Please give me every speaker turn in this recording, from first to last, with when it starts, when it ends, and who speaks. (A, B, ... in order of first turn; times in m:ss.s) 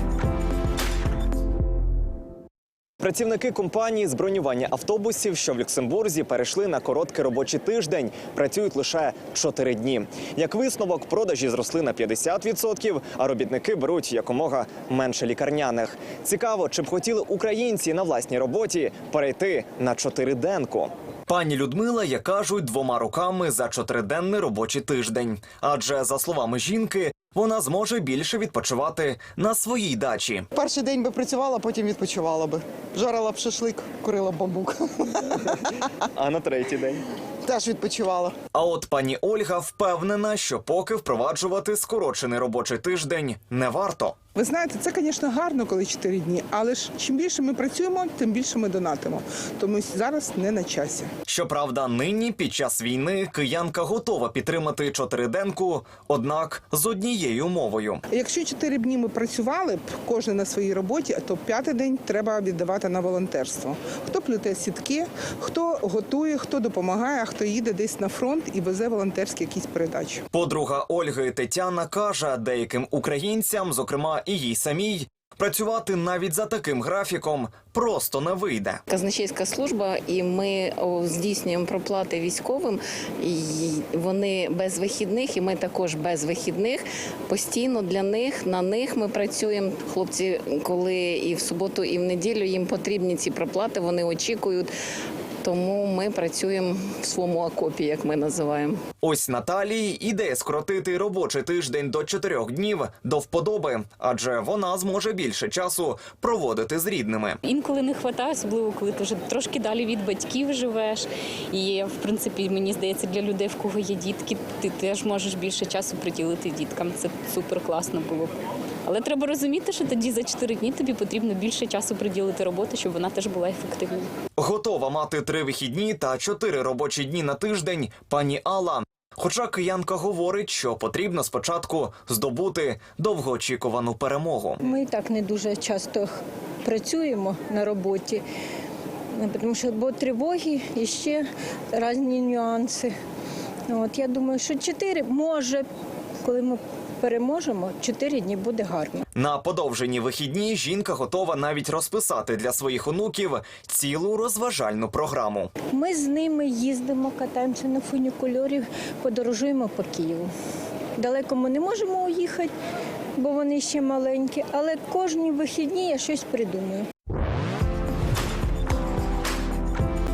0:03.0-0:30.4 A
0:30.5-0:35.6 B
0:36.2-0:37.0 A
0:37.4-0:38.3 B
0:38.5-0:44.2 A
0:44.3-0:51.1 C
0:51.3-0:58.0 A
0:58.1-1:10.2 C
1:10.3-1:18.8 A
1:18.9-1:34.7 D
1:35.4-1:38.8 D
1:39.0-1:47.4 A
1:47.4-2:04.1 E
2:04.4-2:14.6 A
2:14.6-2:18.2 F
2:19.2-2:22.9 F
2:23.7-2:25.6 F
2:26.2-2:29.0 F
2:29.1-2:35.5 A
2:35.7-2:40.3 F
2:41.0-2:42.5 F
2:43.2-2:46.9 F